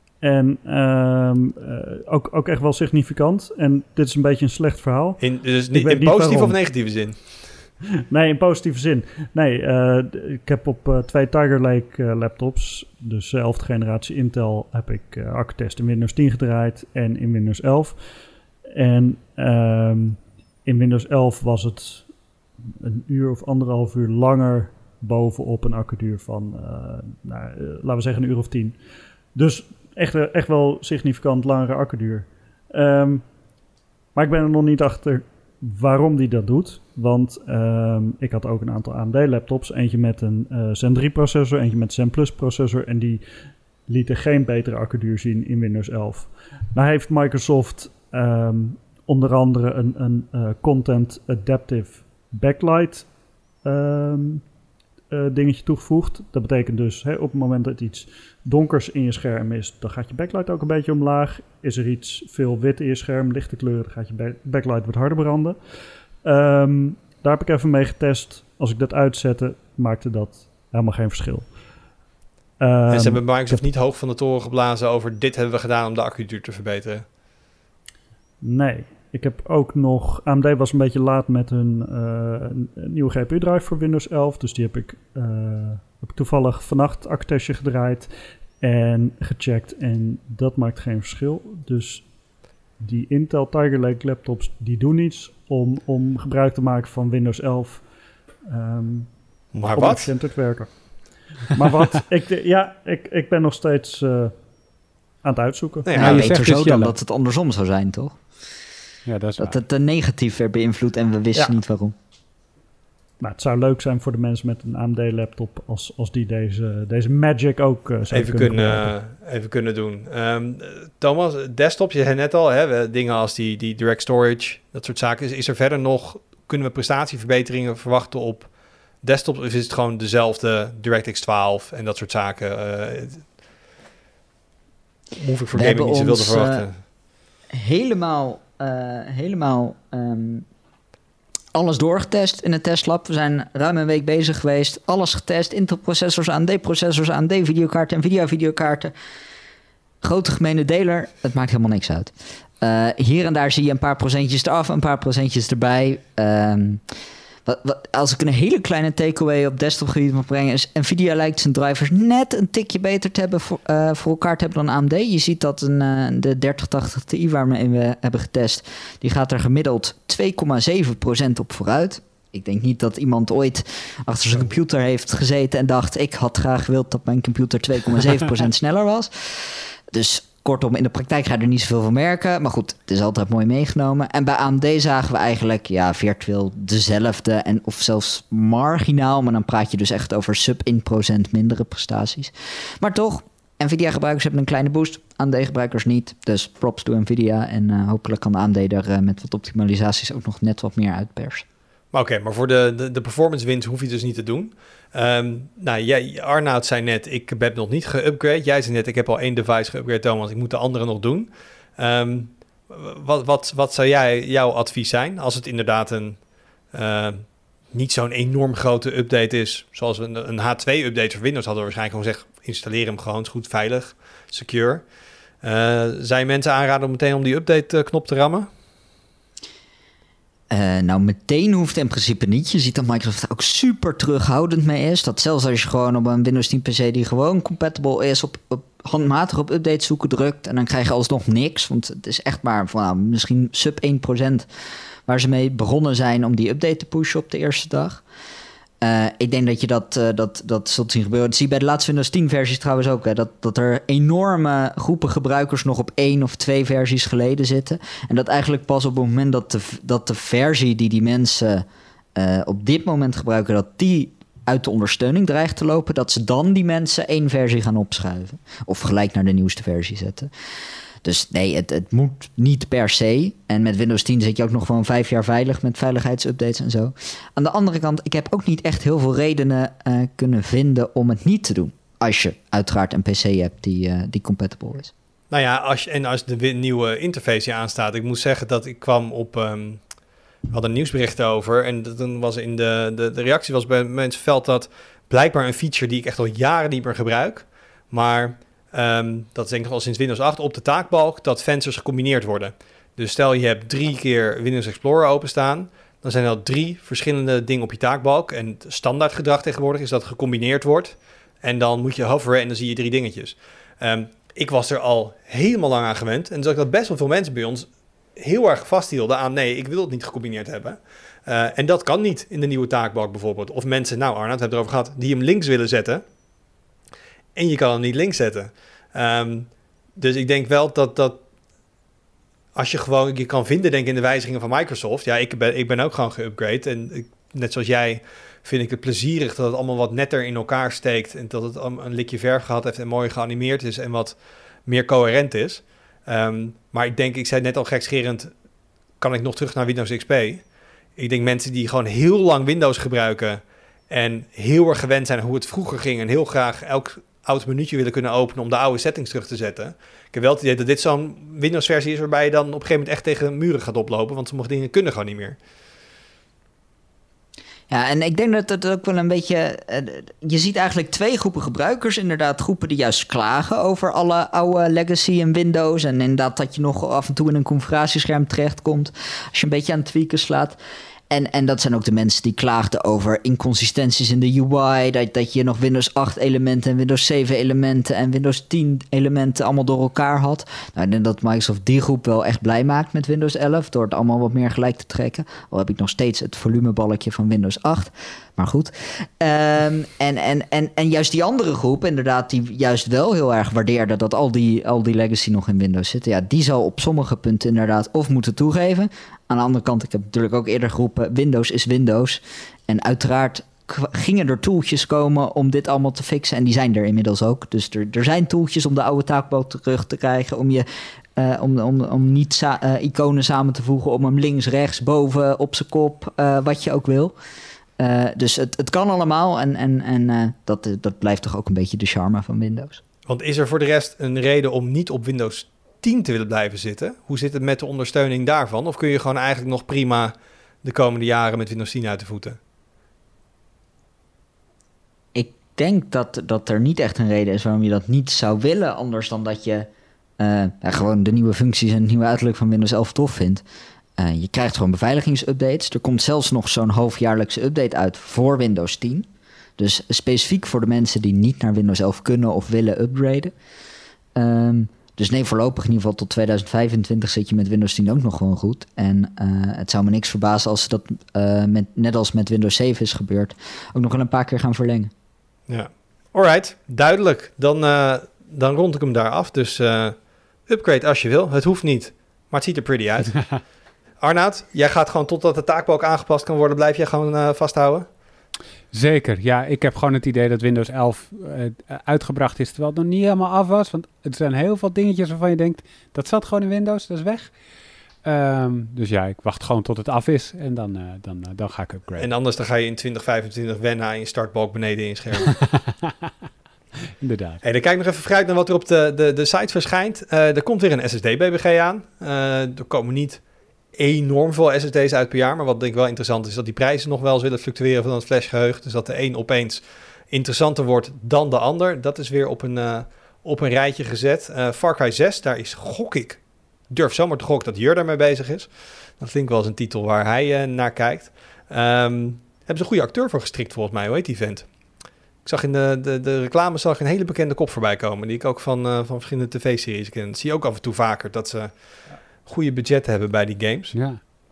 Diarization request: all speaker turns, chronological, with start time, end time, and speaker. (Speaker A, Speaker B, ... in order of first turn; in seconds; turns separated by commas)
Speaker A: 0.2-6.6, Speaker B: 5.2-7.5, Speaker A: 8.1-18.0, Speaker A: 18.7-22.1, Speaker A: 22.8-28.8, Speaker A: 29.3-33.2, Speaker A: 34.1-43.2, Speaker A: 43.9-53.1, Speaker A: 53.6-54.4, Speaker A: 55.1-65.6, Speaker A: 66.2-71.5, Speaker A: 72.6-73.6, Speaker B: 72.9-77.0, Speaker A: 78.4-88.1, Speaker A: 88.6-92.1, Speaker A: 92.8-97.8, Speaker A: 98.5-99.2, Speaker B: 99.5-100.1, Speaker A: 99.7-101.0, Speaker A: 101.5-104.3, Speaker A: 105.2-105.9, Speaker B: 105.8-106.3, Speaker C: 106.0-108.2, Speaker D: 106.0-106.9, Speaker D: 109.0-109.6, Speaker C: 109.4-111.9, Speaker A: 113.2-118.9, Speaker B: 118.1-133.3, Speaker B: 135.2-136.8, Speaker C: 135.6-136.7, Speaker C: 137.5-140.4, Speaker C: 141.5-148.9, Speaker C: 150.0-156.8, Speaker C: 157.4-201.4, Speaker B: 201.9-224.8, Speaker B: 225.4-228.5, Speaker C: 230.5-244.5, Speaker C: 245.1-248.0, Speaker C: 248.8-270.3, Speaker C: 271.0-284.9, Speaker B: 285.3-289.9, Speaker B: 290.5-326.0, Speaker B: 327.3-331.2, Speaker B: 332.6-348.3, Speaker B: 349.0-350.4, Speaker B: 350.9-365.4, Speaker C: 367.7-380.6, Speaker C: 381.1-420.6, Speaker C: 421.2-427.1, Speaker C: 427.8-432.8, Speaker B: 433.1-442.4, Speaker C: 445.1-453.4, Speaker C: 454.0-463.3, Speaker C: 464.1-474.9, Speaker B: 475.5-483.2, Speaker B: 484.0-487.9, Speaker D: 488.7-497.3, Speaker D: 498.0-502.1, Speaker B: 502.0-505.3, Speaker D: 505.3-505.9, Speaker D: 507.0-507.4, Speaker B: 507.4-534.5, Speaker B: 535.2-543.8, Speaker D: 543.7-544.0